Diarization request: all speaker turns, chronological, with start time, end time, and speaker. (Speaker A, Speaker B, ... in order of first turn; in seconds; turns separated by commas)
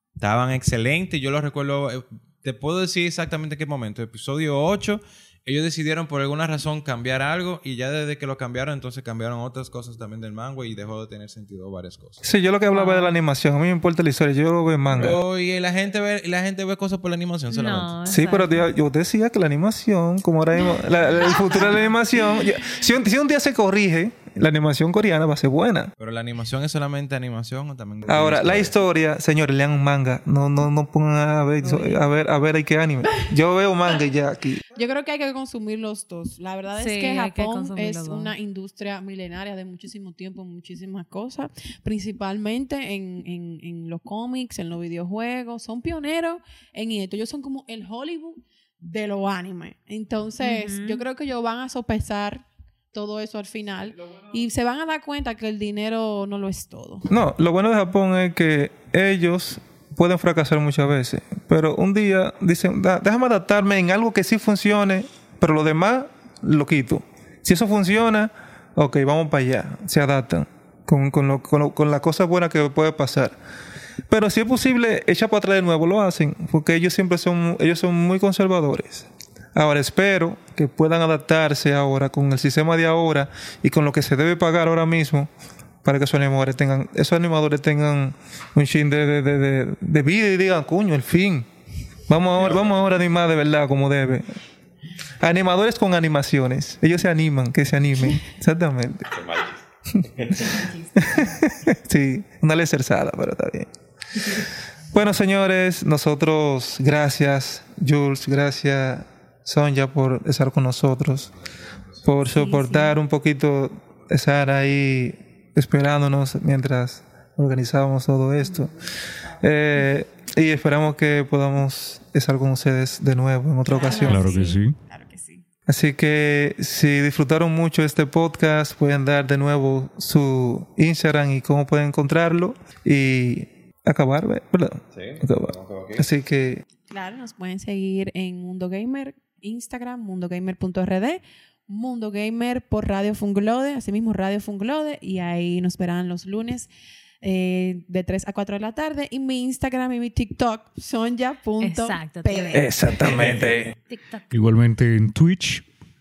Speaker A: 0.2-12.2, Speaker B: 12.2-15.2, Speaker C: 12.7-13.1, Speaker A: 14.9-17.9, Speaker C: 17.5-18.7, Speaker B: 18.0-25.9, Speaker A: 21.0-21.5, Speaker A: 26.0-28.8, Speaker B: 28.1-34.6, Speaker C: 31.6-32.0, Speaker D: 34.7-57.0, Speaker C: 36.7-38.3, Speaker C: 50.4-51.0, Speaker B: 57.1-73.3, Speaker B: 74.1-85.3, Speaker B: 85.8-91.5, Speaker B: 92.1-94.3, Speaker A: 92.4-92.8, Speaker B: 95.2-99.1, Speaker A: 99.1-99.6, Speaker B: 99.9-103.7, Speaker A: 100.2-100.5, Speaker B: 104.9-111.3, Speaker B: 112.0-118.7, Speaker C: 112.3-112.9, Speaker B: 119.4-124.3, Speaker D: 123.7-125.4, Speaker E: 123.9-124.8, Speaker C: 124.3-124.6, Speaker B: 125.7-136.6, Speaker A: 134.9-136.1, Speaker D: 136.9-146.7, Speaker D: 147.2-153.0, Speaker C: 151.6-152.7, Speaker B: 152.5-153.7, Speaker A: 152.9-153.7, Speaker C: 153.2-154.4, Speaker E: 154.3-155.7